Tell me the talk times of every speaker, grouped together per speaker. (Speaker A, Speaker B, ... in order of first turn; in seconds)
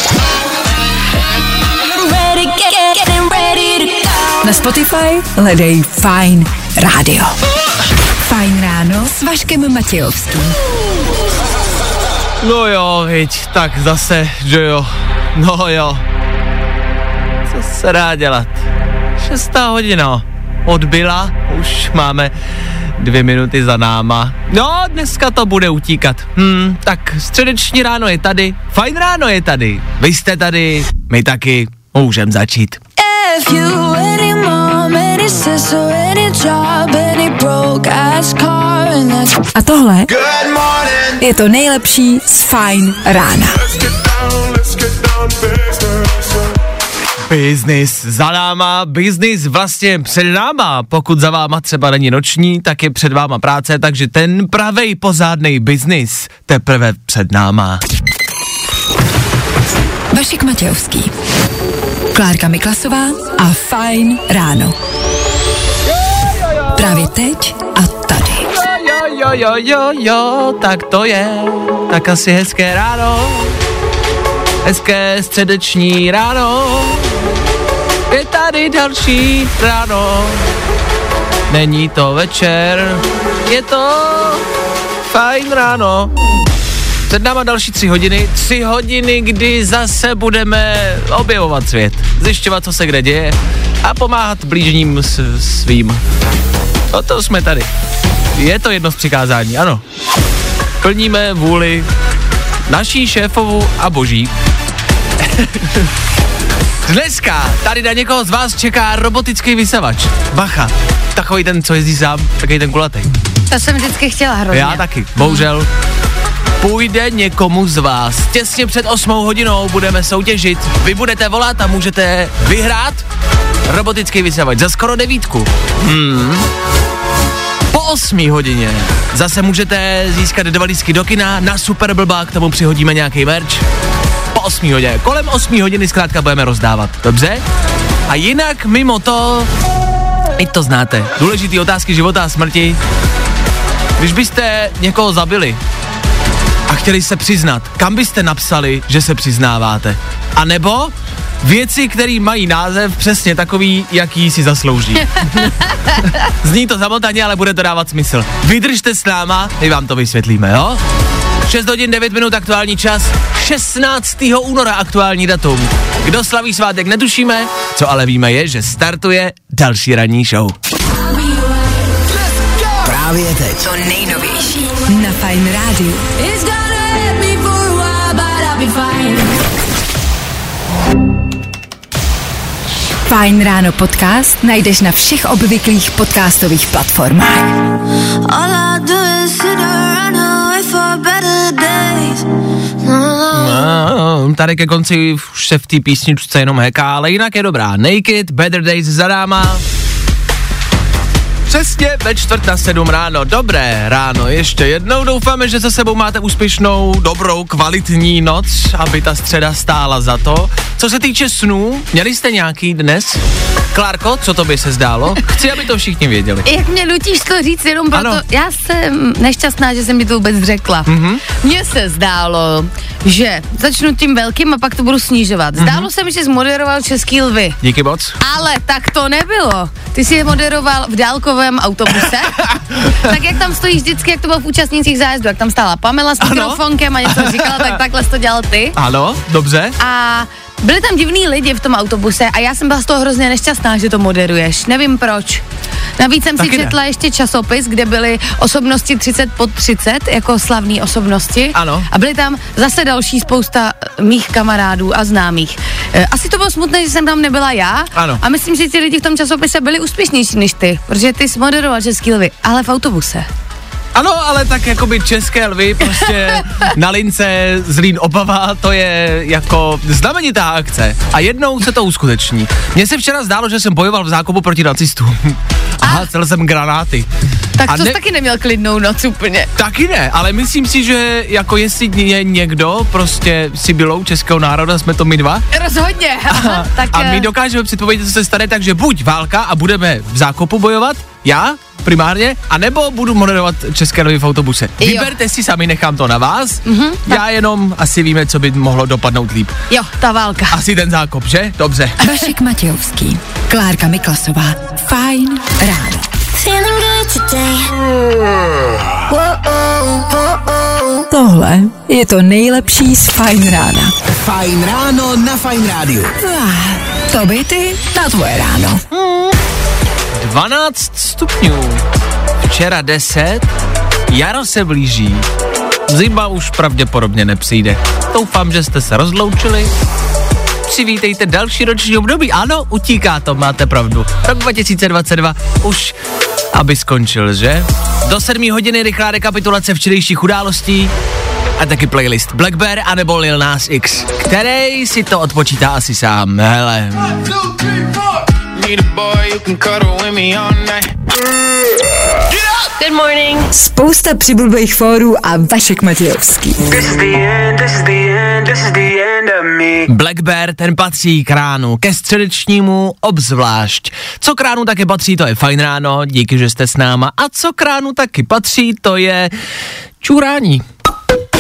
Speaker A: 1.8-4.4, 33.2-39.4, 176.9-179.2, 188.2-192.2, 192.8-193.6, 306.4-307.7, 352.8-353.5
Speaker B: 4.4-7.3, 8.2-10.6, 39.5-40.1, 41.2-43.6, 60.1-61.1, 62.1-64.7, 66.7-68.5, 173.6-176.1, 183.1-187.6, 302.0-306.1, 311.1-313.9, 316.2-318.8, 353.5-356.8
Speaker C: 12.4-16.0, 17.4-18.6, 19.2-22.3, 22.9-32.8, 47.2-57.8, 66.2-66.8, 68.5-73.5, 74.6-77.1, 78.1-80.5, 81.5-84.5, 85.1-86.1, 87.1-96.0, 96.9-97.7, 98.3-99.8, 100.8-101.9, 102.7-104.3, 105.2-105.9, 106.8-113.1, 114.5-115.7, 116.6-123.0, 123.7-126.5, 127.7-133.6, 134.3-137.4, 138.1-139.5, 140.4-142.8, 144.0-145.6, 146.7-160.8, 161.4-170.5, 193.3-199.6, 201.5-213.2, 213.7-216.5, 217.9-218.2, 220.8-221.2, 225.6-225.9, 227.6-228.2, 232.4-233.0, 236.2-237.8, 238.8-239.8, 246.4-246.7, 251.5-251.9, 257.9-258.2, 263.9-277.1, 277.7-278.0, 279.6-285.4, 286.3-299.5, 300.5-302.0, 318.9-319.4, 320.1-321.8, 322.4-323.5, 324.1-325.2, 325.9-329.7, 330.6-336.0, 336.5-340.9, 341.6-347.2, 359.8-369.3, 370.0-370.6
Speaker D: 40.1-41.2, 43.6-46.5, 347.3-351.0, 352.3-352.6, 356.8-359.8
Speaker E: 113.5-115.4, 216.4-227.6, 228.2-238.8, 239.8-245.4, 246.0-263.3, 277.6-279.5, 285.5-287.3, 294.8-295.1, 296.6-297.2, 299.7-300.6
Speaker F: 172.8-173.6, 314.1-316.1